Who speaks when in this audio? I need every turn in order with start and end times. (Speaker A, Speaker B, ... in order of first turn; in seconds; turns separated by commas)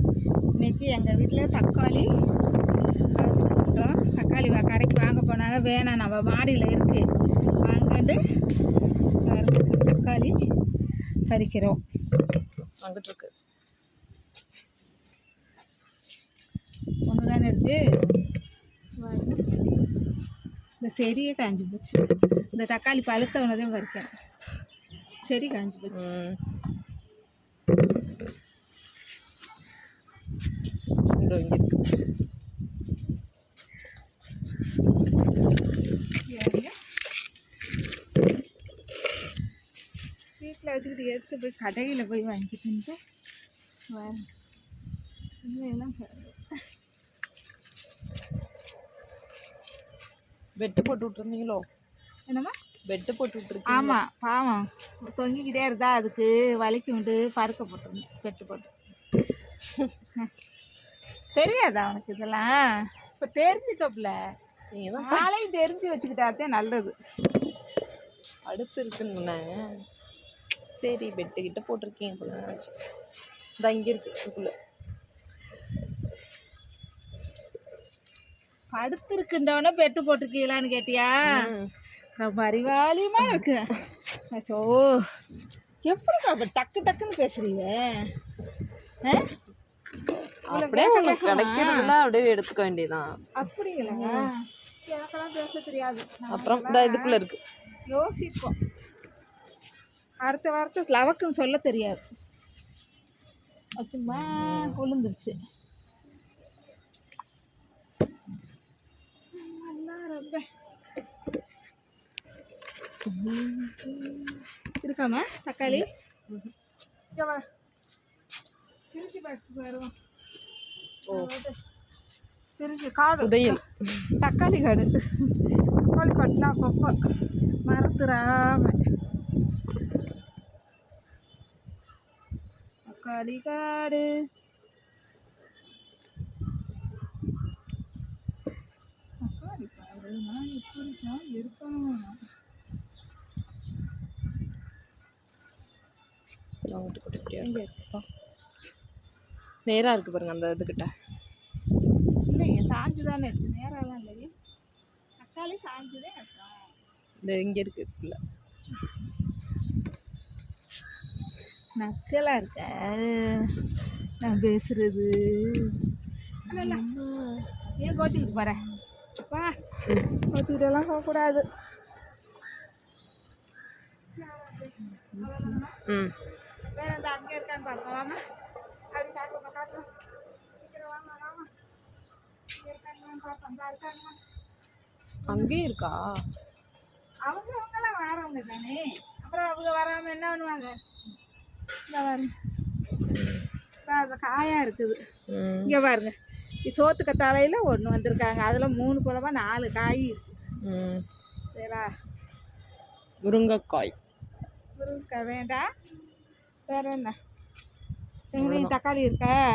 Speaker A: 0.6-2.1, Speaker A: 3.1-7.0, Speaker A: 7.6-8.2, Speaker A: 9.2-10.3, Speaker A: 11.3-11.8, Speaker B: 12.8-13.3, Speaker A: 17.1-17.8, Speaker A: 19.0-19.4, Speaker A: 20.8-24.1, Speaker A: 25.2-26.1, Speaker B: 25.9-26.4, Speaker B: 31.1-31.9, Speaker A: 36.3-36.7, Speaker A: 40.4-43.0, Speaker A: 43.9-44.3, Speaker A: 45.4-46.5, Speaker B: 50.6-51.6, Speaker A: 52.3-52.5, Speaker B: 52.9-54.0, Speaker A: 53.7-58.7, Speaker A: 61.4-64.2, Speaker B: 64.7-65.3, Speaker A: 65.0-66.9, Speaker B: 68.5-69.5, Speaker B: 70.8-72.7, Speaker B: 73.6-74.5, Speaker A: 78.7-81.5, Speaker B: 81.2-81.7, Speaker A: 82.2-83.7, Speaker A: 84.3-85.1, Speaker A: 85.8-88.1, Speaker A: 89.0-89.3, Speaker B: 90.5-93.3, Speaker A: 90.5-91.9, Speaker A: 93.4-97.2, Speaker B: 93.8-94.3, Speaker B: 96.3-97.4, Speaker A: 97.9-98.5, Speaker A: 100.2-102.0, Speaker A: 103.8-105.4, Speaker B: 104.1-104.8, Speaker A: 109.3-110.5, Speaker B: 113.1-113.9, Speaker A: 114.8-115.9, Speaker B: 115.7-116.5, Speaker A: 117.2-117.4, Speaker A: 118.9-119.9, Speaker B: 121.1-121.3, Speaker A: 121.1-121.6, Speaker A: 122.6-123.6, Speaker B: 123.2-124.2, Speaker A: 124.2-127.0, Speaker A: 127.7-128.8, Speaker A: 132.9-134.1, Speaker A: 139.2-142.2, Speaker B: 146.7-148.0, Speaker A: 147.4-148.0, Speaker B: 149.7-150.9, Speaker A: 152.3-154.3, Speaker A: 155.2-156.6, Speaker B: 157.2-158.2, Speaker A: 161.8-163.6, Speaker A: 164.2-165.8, Speaker A: 166.5-166.8, Speaker B: 166.5-167.5, Speaker A: 167.8-168.7, Speaker A: 169.2-169.5, Speaker A: 170.3-171.4, Speaker A: 174.2-175.8, Speaker B: 175.1-176.1, Speaker A: 176.8-178.2, Speaker A: 178.9-179.9, Speaker A: 180.6-181.5, Speaker A: 182.6-184.2, Speaker A: 185.3-185.6, Speaker B: 185.3-186.0, Speaker A: 187.2-190.7, Speaker A: 191.9-192.3, Speaker B: 193.1-193.4, Speaker A: 193.9-195.0, Speaker B: 195.3-195.8, Speaker A: 195.7-196.1, Speaker A: 196.7-200.4, Speaker B: 200.6-201.0, Speaker A: 201.6-201.9, Speaker B: 203.2-204.0, Speaker A: 204.8-205.7, Speaker A: 206.7-207.2, Speaker A: 208.3-209.4, Speaker B: 208.3-208.8